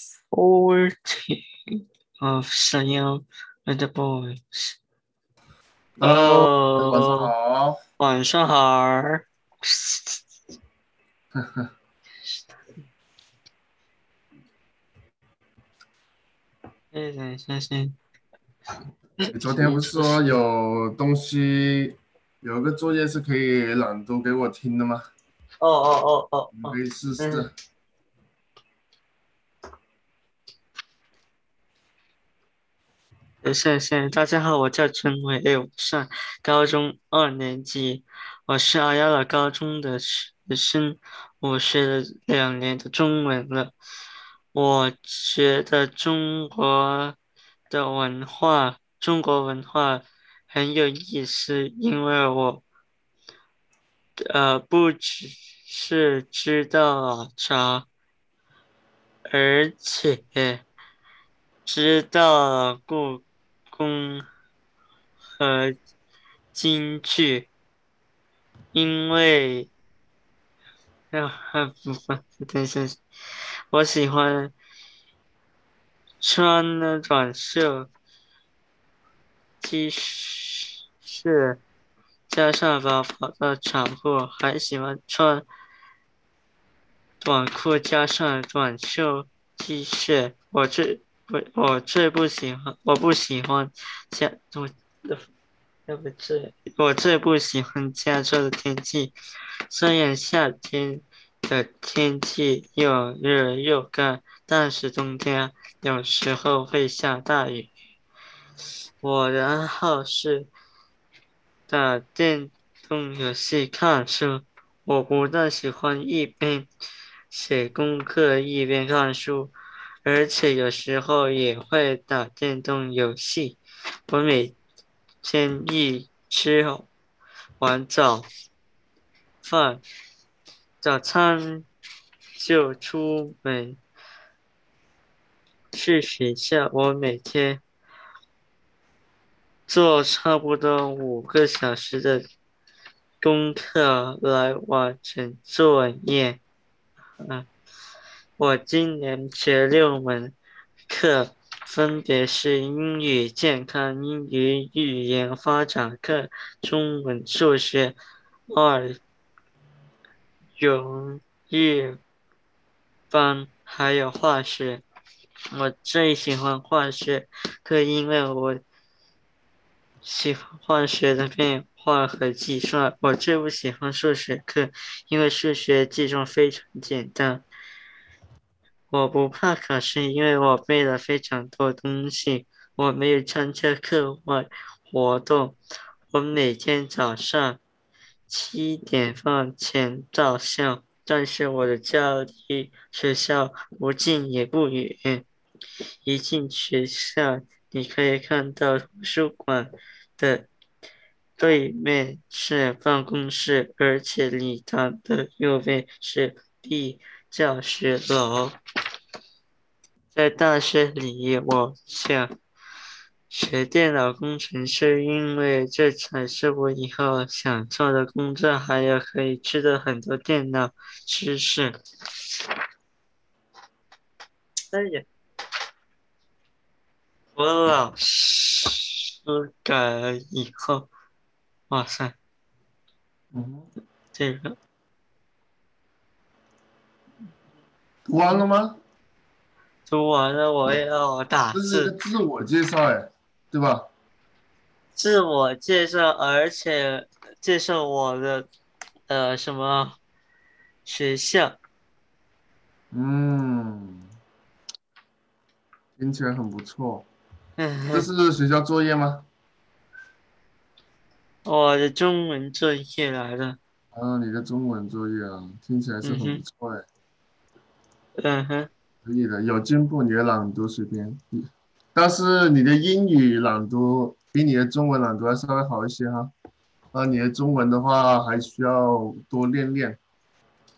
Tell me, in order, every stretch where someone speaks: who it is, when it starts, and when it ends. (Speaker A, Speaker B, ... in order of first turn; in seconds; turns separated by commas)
Speaker A: 0.3-4.8, Speaker A: 6.0-7.3, Speaker B: 6.0-7.8, Speaker A: 8.0-10.2, Speaker B: 11.3-11.7, Speaker A: 16.9-18.0, Speaker A: 19.2-20.2, Speaker B: 19.3-25.1, Speaker A: 25.6-27.4, Speaker B: 26.6-27.5, Speaker A: 33.4-43.7, Speaker A: 44.5-47.2, Speaker A: 47.7-52.6, Speaker A: 54.2-57.9, Speaker A: 59.3-60.6, Speaker A: 61.6-64.2, Speaker A: 65.4-65.8, Speaker A: 66.5-67.5, Speaker A: 68.7-69.7, Speaker A: 71.1-73.0, Speaker A: 73.7-74.5, Speaker A: 76.2-77.9, Speaker A: 79.6-81.6, Speaker A: 82.3-85.5, Speaker A: 87.2-95.3, Speaker A: 95.9-99.1, Speaker A: 99.7-107.7, Speaker A: 109.0-110.5, Speaker A: 111.7-116.7, Speaker A: 117.3-119.5, Speaker A: 120.0-124.5, Speaker A: 125.2-126.9, Speaker A: 127.6-128.3, Speaker A: 129.4-129.8, Speaker A: 130.8-131.7, Speaker A: 132.4-133.8, Speaker A: 135.7-137.6, Speaker A: 139.7-142.2, Speaker A: 143.2-146.4, Speaker A: 147.2-147.5, Speaker A: 148.4-150.3, Speaker A: 150.9-159.0, Speaker A: 160.6-162.0, Speaker A: 163.1-164.8, Speaker A: 165.5-168.6, Speaker A: 170.0-177.4, Speaker A: 178.9-185.6, Speaker A: 186.1-187.6, Speaker A: 188.3-195.2, Speaker A: 196.0-200.5, Speaker A: 201.4-208.6, Speaker A: 210.1-212.3, Speaker A: 213.3-221.8, Speaker A: 224.7-225.0, Speaker A: 227.3-230.9, Speaker A: 231.7-232.1, Speaker B: 233.3-233.7, Speaker A: 234.1-234.6, Speaker B: 238.1-238.8, Speaker A: 239.9-241.9, Speaker B: 241.5-243.9, Speaker A: 244.9-248.5, Speaker A: 249.1-250.0, Speaker A: 250.8-251.6, Speaker B: 252.9-254.1, Speaker B: 256.0-257.1, Speaker A: 257.6-258.1, Speaker B: 257.9-259.3, Speaker A: 261.4-263.6, Speaker B: 263.9-266.9, Speaker A: 266.0-266.4, Speaker A: 268.2-268.7, Speaker B: 269.0-276.3, Speaker B: 276.9-280.0